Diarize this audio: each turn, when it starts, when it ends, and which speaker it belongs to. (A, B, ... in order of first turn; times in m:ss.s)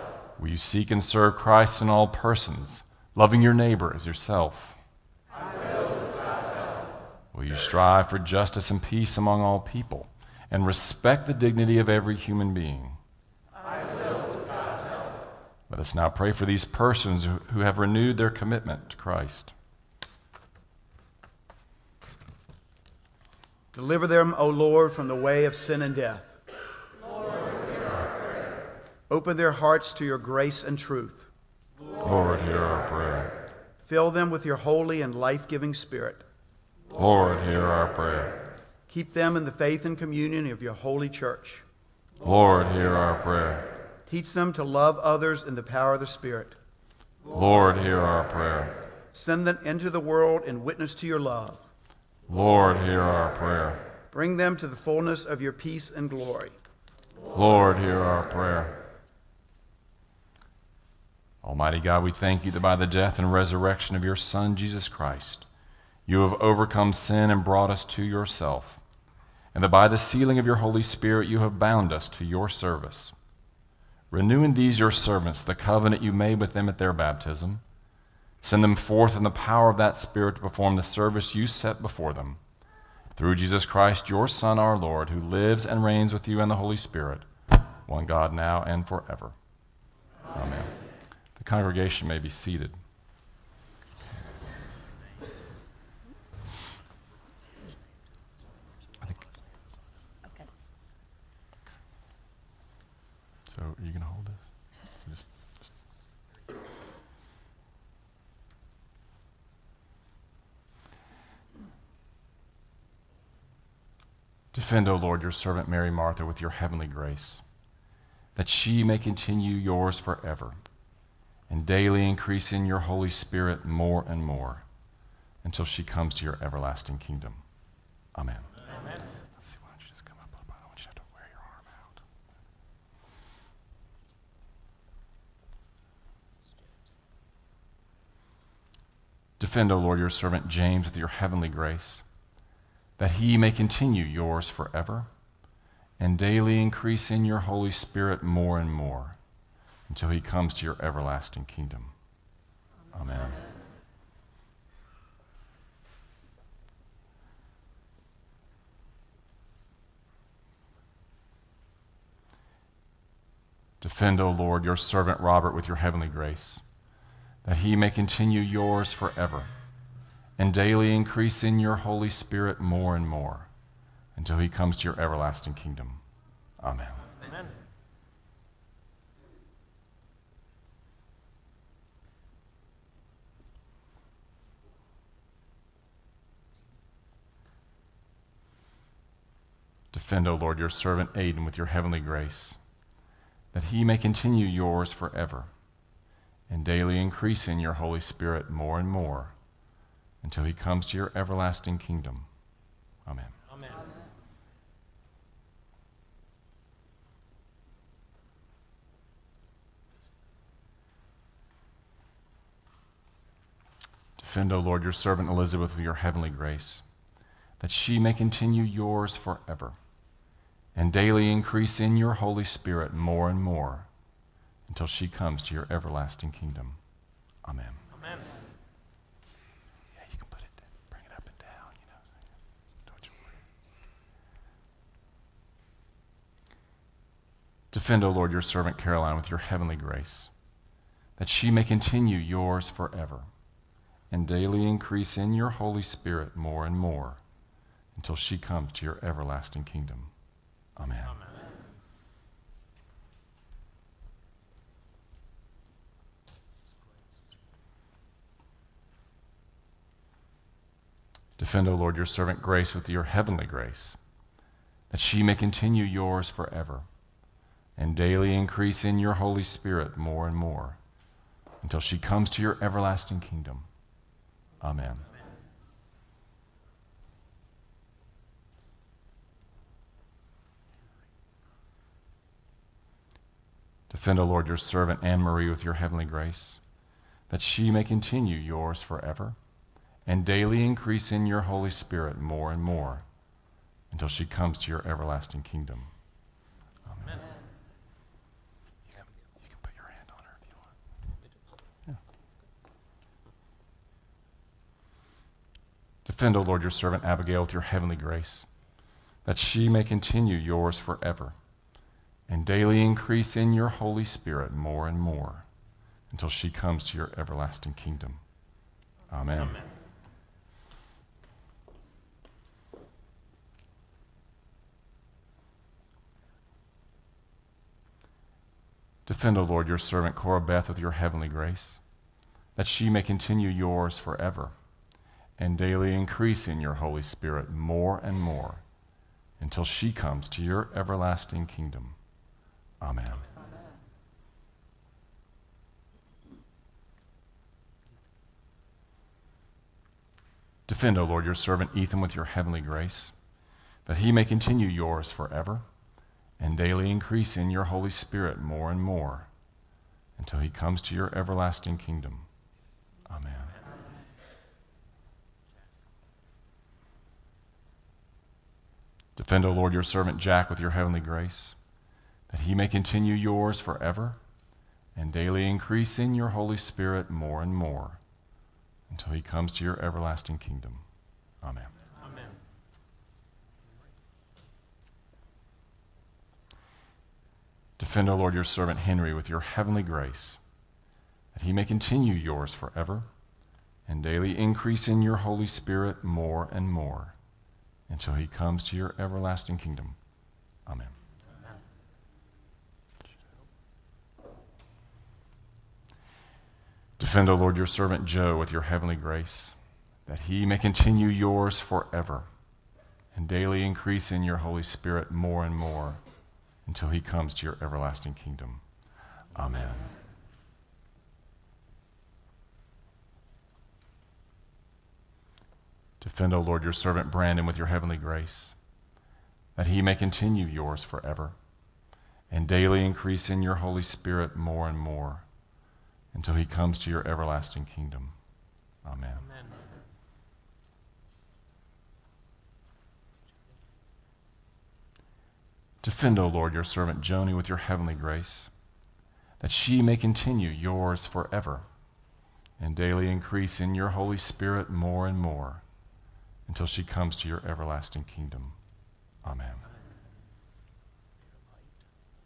0:00.4-0:04.8 A
0:07.3-0:13.0 A
0:15.7-0:19.5 A
0:23.7-0:26.4 B
0:29.1-0:31.3 B
0:32.0-0:33.3 A
0:33.8-0:36.2 B
0:37.0-0:38.4 A
0:38.9-0:41.7 B
0:42.2-0:43.7 A
0:44.1-0:46.6 B
0:47.3-0:48.8 A
0:49.1-0:51.7 B
0:52.3-0:53.8 A
0:54.1-0:56.6 B
0:57.3-0:58.8 A
1:01.4-1:05.5 A
1:06.1-1:08.8 A
1:09.5-1:13.1 A
1:14.1-1:17.6 A
1:18.4-1:22.4 A
1:23.2-1:27.3 A
1:27.9-1:29.4 A
1:30.3-1:30.7 A
1:31.4-1:32.8 A
1:43.5-1:45.3 A
1:54.5-1:57.4 A
1:58.4-2:00.6 A
2:01.5-2:04.6 A
2:05.4-2:07.4 A
2:08.2-2:08.6 A
2:08.7-2:09.0 C
2:09.4-2:12.0 A
2:19.4-2:22.0 A
2:23.0-2:25.1 A
2:26.0-2:29.2 A
2:29.9-2:31.9 A
2:32.9-2:33.4 A
2:43.8-2:46.6 A
2:47.4-2:49.5 A
2:50.4-2:53.5 A
2:54.2-2:56.0 A
2:56.6-2:57.1 A
2:57.2-2:57.5 C
3:09.9-3:12.6 A
3:13.5-3:15.5 A
3:16.5-3:19.3 A
3:20.2-3:22.3 A
3:23.1-3:23.4 A
3:23.5-3:23.8 C
3:34.2-3:36.8 A
3:37.6-3:39.8 A
3:40.8-3:43.9 A
3:44.7-3:46.8 A
3:47.4-3:47.8 A
3:47.9-3:48.3 C
3:50.0-3:51.9 A
3:52.9-3:53.2 A
3:57.7-4:00.3 A
4:01.2-4:03.3 A
4:04.1-4:07.2 A
4:08.0-4:10.1 A
4:10.8-4:11.2 A
4:11.0-4:11.4 C
4:21.4-4:24.0 A
4:24.9-4:26.9 A
4:27.8-4:30.8 A
4:31.6-4:33.7 A
4:34.6-4:35.0 A
4:43.9-4:46.6 A
4:47.3-4:49.4 A
4:50.1-4:53.0 A
4:53.9-4:55.9 A
4:59.6-5:00.4 A
5:06.0-5:08.5 A
5:09.2-5:11.4 A
5:12.3-5:15.4 A
5:16.1-5:18.2 A
5:19.1-5:19.6 A
5:19.3-5:19.7 C
5:29.1-5:31.8 A
5:32.6-5:34.5 A
5:35.4-5:38.6 A
5:39.4-5:42.0 A
5:42.8-5:43.3 A
5:50.7-5:53.1 A
5:53.9-5:55.6 A
5:56.4-5:59.3 A
6:00.2-6:02.3 A
6:03.1-6:03.5 A
6:09.2-6:11.6 A
6:12.3-6:14.2 A
6:15.0-6:18.0 A
6:18.9-6:20.8 A
6:21.4-6:21.7 A
6:22.0-6:22.4 C
6:27.8-6:30.4 A
6:31.4-6:33.1 A
6:33.9-6:37.2 A
6:37.9-6:40.0 A
6:40.7-6:41.0 A
6:47.0-6:49.6 A
6:50.1-6:52.3 A
6:53.2-6:56.0 A
6:56.7-6:58.6 A
6:59.3-6:59.9 A
7:06.0-7:08.6 A
7:09.6-7:11.4 A
7:12.3-7:15.2 A
7:16.1-7:18.2 A
7:18.8-7:19.2 A
7:19.2-7:19.5 C
7:25.8-7:28.5 A
7:29.4-7:31.6 A
7:32.6-7:35.6 A
7:36.5-7:38.6 A
7:39.2-7:39.6 A